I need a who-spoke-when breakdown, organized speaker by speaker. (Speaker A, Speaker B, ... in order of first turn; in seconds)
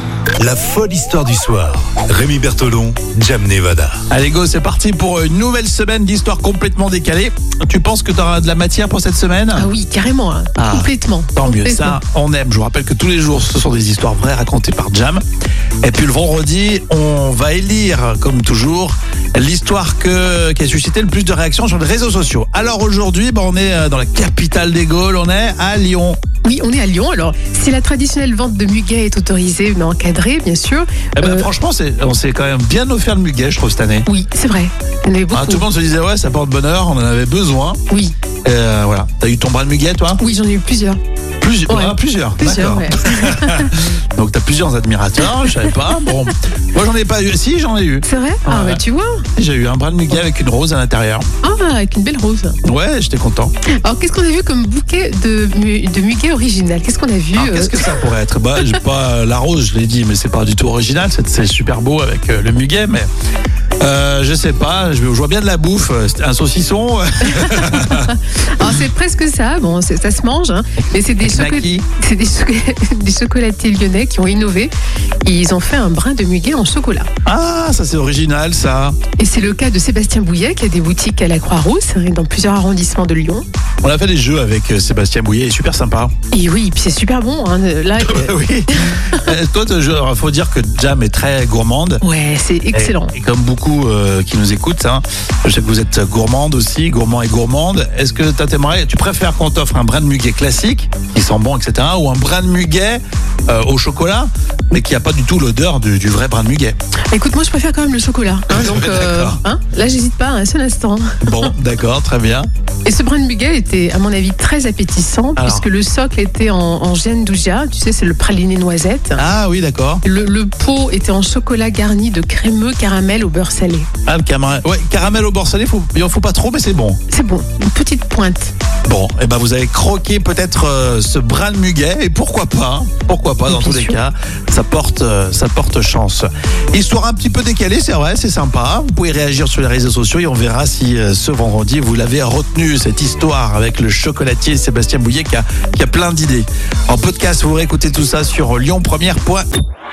Speaker A: 0.4-4.0
Speaker B: 4.1-9.7, 10.6-15.2, 15.8-26.2, 31.2-34.1, 35.3-37.8, 38.5-40.2, 41.4-48.8, 49.4-51.3, 52.6-53.5, 57.4-63.1, 63.8-68.6, 71.2-71.8, 77.2-79.0, 83.8-86.1, 88.0-92.0, 92.7-106.8, 108.5-109.4, 111.2-112.5, 115.4-115.7, 119.2-120.0, 124.1-127.0, 128.9-149.5
Speaker C: 9.6-12.0, 26.4-31.5, 34.1-35.6, 40.2-41.0, 41.7-43.8, 48.1-49.2, 51.4-52.6, 53.8-58.0, 67.3-74.7, 75.2-77.1, 79.2-83.5, 86.3-88.4, 92.0-93.1, 107.1-111.5, 112.8-119.2, 120.0-123.9, 127.1-128.5, 133.5-134.0